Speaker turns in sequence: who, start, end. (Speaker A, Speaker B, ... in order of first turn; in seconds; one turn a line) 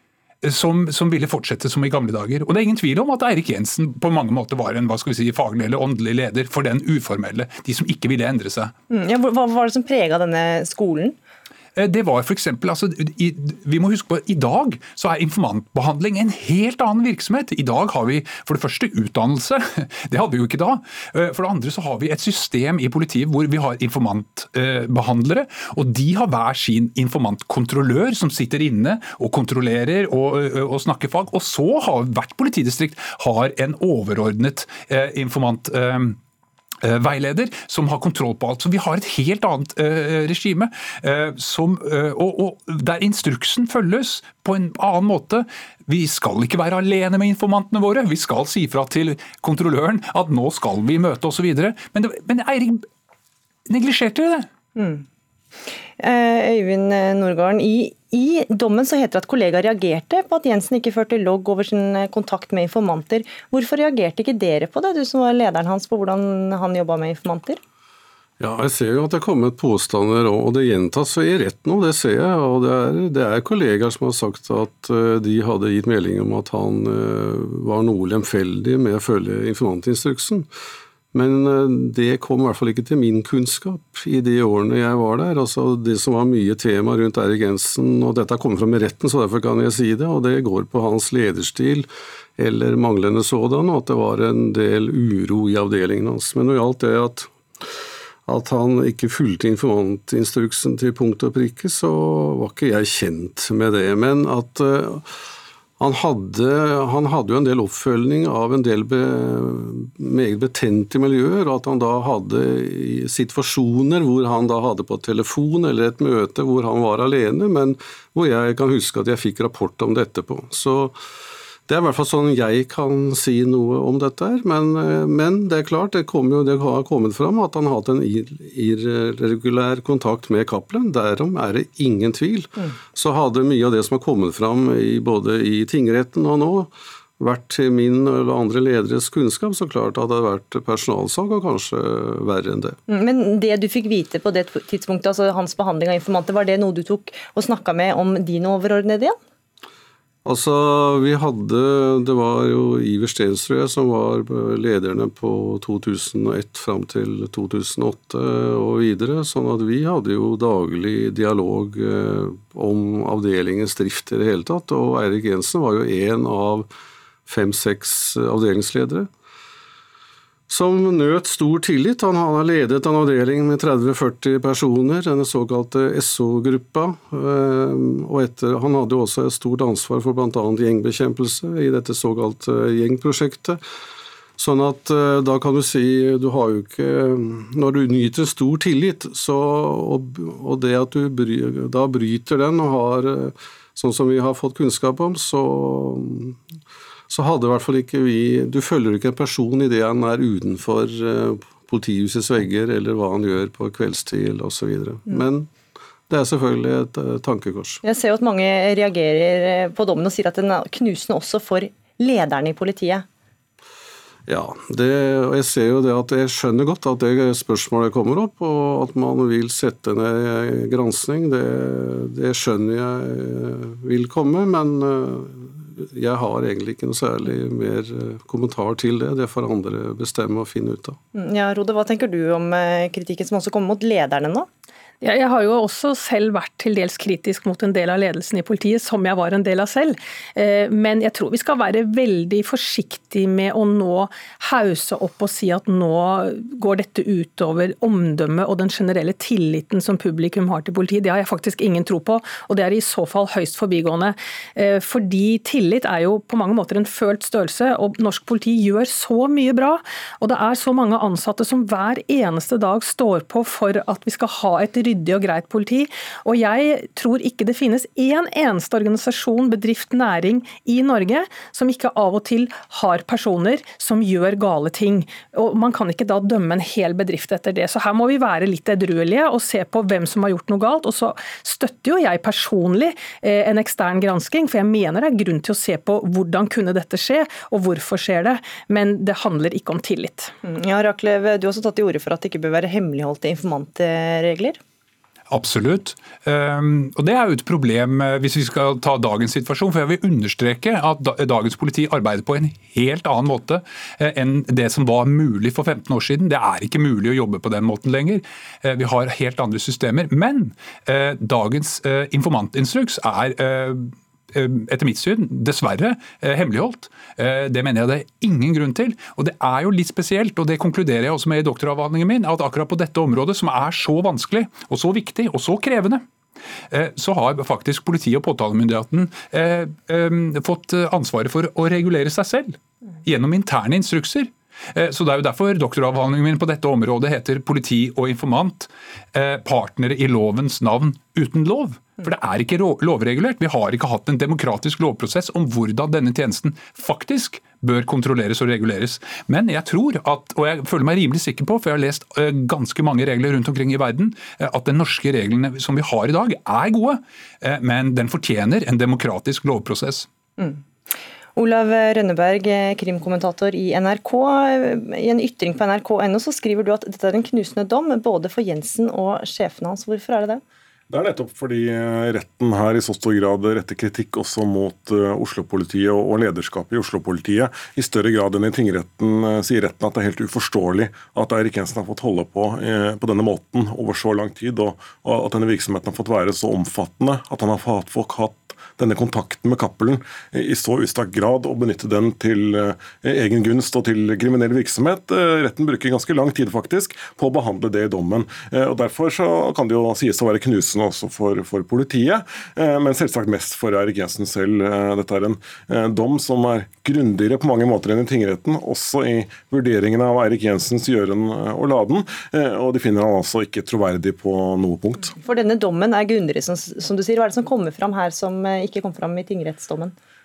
Speaker A: 0.4-8.7
Speaker B: 8.9-11.2
Speaker A: 11.8-36.2
Speaker A: 36.8-52.9
Speaker A: 53.7-54.5
Speaker B: 54.8-55.0
Speaker B: 56.0-67.6
Speaker C: 68.4-80.5
Speaker C: 81.1-97.3
Speaker C: 98.3-105.1
Speaker C: 105.8-121.0
Speaker C: 121.7-142.8
Speaker B: 142.9-149.2
Speaker C: 150.2-166.7
Speaker C: 167.3-169.1
Speaker C: 170.5-183.6
Speaker C: 184.4-196.4
Speaker C: 197.1-205.5
Speaker C: 206.1-207.8
Speaker B: 207.8-213.1
Speaker C: 214.3-231.0
Speaker B: 231.1-234.5
Speaker D: 235.0-290.3
Speaker B: 290.4-294.6
Speaker A: 295.3-326.0
Speaker A: 326.7-360.1
Speaker B: 361.4-370.4
Speaker E: 370.9-415.2
Speaker B: 415.2-419.9